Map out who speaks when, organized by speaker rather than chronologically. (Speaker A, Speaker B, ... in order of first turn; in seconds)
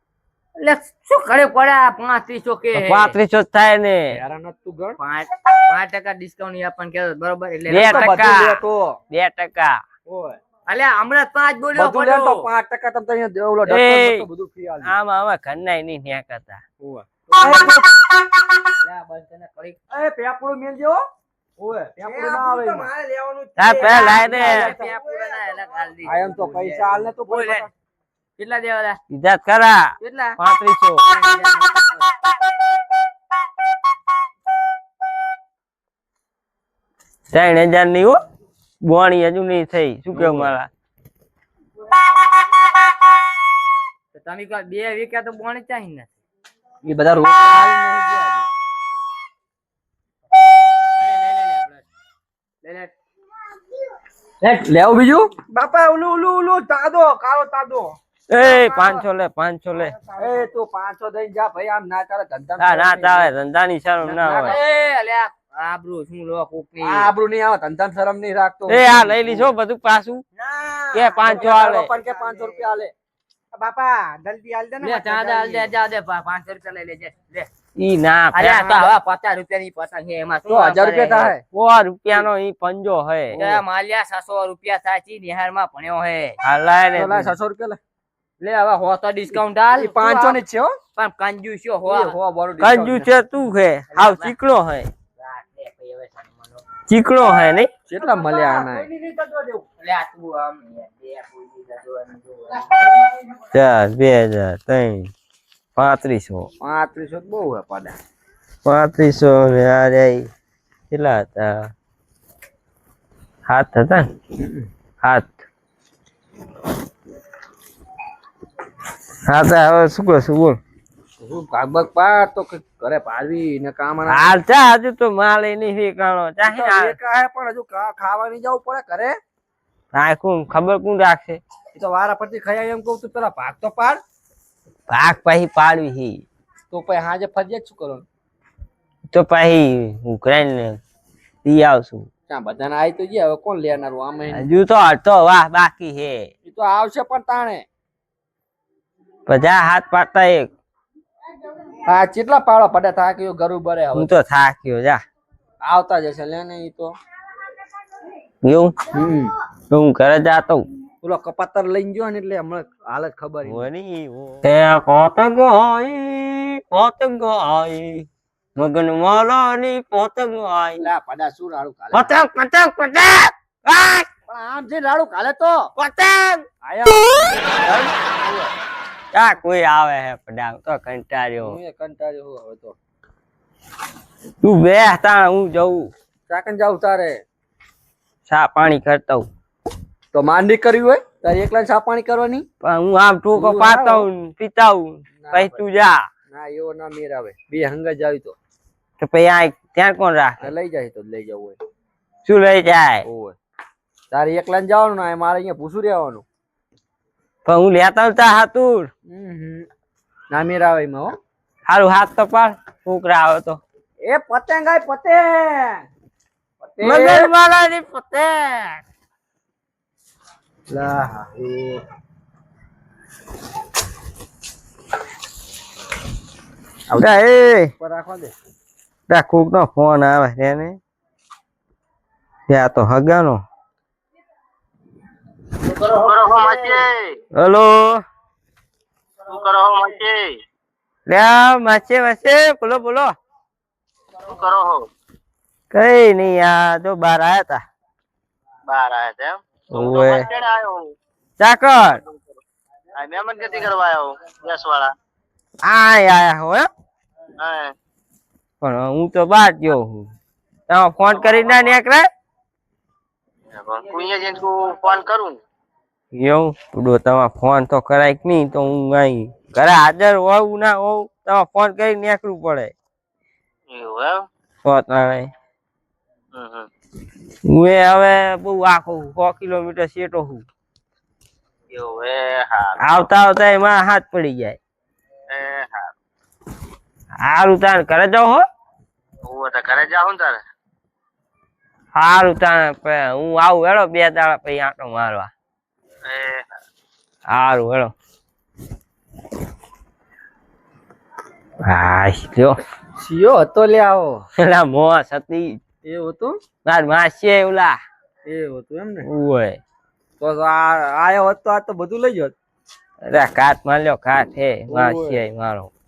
Speaker A: 0.6-3.2, 5.0-8.2, 10.7-12.5, 18.8-19.8, 23.8-27.7, 28.4-29.0, 30.0-30.4, 31.1-32.0, 44.1-46.1, 51.0-51.8, 52.6-52.9, 64.2-67.1, 74.8-77.5, 78.3-81.3, 83.4-86.4, 88.4-90.4, 91.0-92.2, 93.9-94.3, 95.2-96.6, 99.8-102.8
Speaker B: 2.8-4.2, 7.7-9.8, 13.7-14.3, 14.8-16.6, 17.4-17.8, 23.6-24.8, 29.1-31.1, 37.3-38.2, 38.8-40.7, 58.3-60.0, 62.6-64.6, 68.7-70.2, 70.9-71.9, 77.8-78.9, 81.5-83.4, 86.4-87.3, 92.6-94.9, 96.9-97.7, 103.5-105.1, 105.8-106.5, 108.7-110.3, 110.9-111.7, 113.5-114.1, 115.0-115.4, 119.3-120.6, 124.1-127.0, 129.9-131.4, 134.9-136.2, 139.1-140.8, 141.4-142.1, 144.3-146.3, 149.3-150.5, 153.9-155.0, 158.4-158.8, 159.7-160.7, 163.5-170.8, 171.9-174.1, 175.8-176.5, 179.1-181.6, 184.4-185.9, 188.3-189.3, 192.6-196.1, 199.0-200.4, 202.2-203.1, 207.4-208.9, 211.7-213.6, 216.8-218.8, 227.0-227.7, 229.1-230.8, 232.5-233.4, 237.3-238.0, 241.1-243.2, 245.7-247.7, 249.7-250.3, 251.4-252.0, 255.6-256.7, 258.6-260.1, 260.7-262.1, 266.1-272.7, 274.6-275.3, 277.4-280.4, 282.8-284.6, 287.2-288.4, 291.9-295.3, 297.3-297.9, 301.6-302.6, 304.4-305.6, 306.6-307.8, 309.1-309.6, 313.1-315.7
Speaker C: 4.1-5.0, 7.8-9.0, 10.1-10.4, 11.8-15.0, 16.8-17.8, 19.9-21.1, 21.6-22.9, 26.0-27.7, 40.1-40.5, 46.8-48.5, 54.4-55.3, 60.2-63.3, 64.0-64.6, 66.8-69.5, 71.2-72.9, 80.5-81.4, 83.3-83.6, 87.0-87.8, 89.8-90.8, 91.9-93.1, 97.9-98.9, 106.6-108.0, 121.2-124.3, 126.4-129.2, 131.8-134.0, 136.7-138.1, 142.3-144.5, 146.4-147.7, 151.9-154.1, 155.6-156.9, 158.9-159.3, 161.0-163.7, 170.8-172.2, 174.3-175.7, 176.6-178.5, 181.4-182.8, 186.3-187.2, 190.1-192.5, 193.3-194.1, 195.2-195.6, 196.3-198.4, 200.4-201.6, 203.0-203.4, 204.1-206.2, 209.1-209.7, 210.3-211.2, 214.0-215.9, 216.6-217.3, 220.7-221.8, 226.9-227.2, 227.8-228.3, 303.0-304.2, 305.8-306.4, 308.3-309.1, 310.2-312.3, 314.7-315.2
Speaker D: 22.0-25.9, 55.5-59.0, 59.7-60.5, 70.4-72.7, 73.5-75.7, 98.0-99.7
Speaker E: 235.9-237.0, 239.3-240.3, 244.2-244.9, 248.7-250.9, 251.9-252.2, 252.9-254.9, 257.4-257.7, 261.1-261.7, 263.5-265.4, 273.7-274.2, 276.4-276.7, 281.7-283.1, 285.3-285.9, 289.3-290.4, 296.1-296.4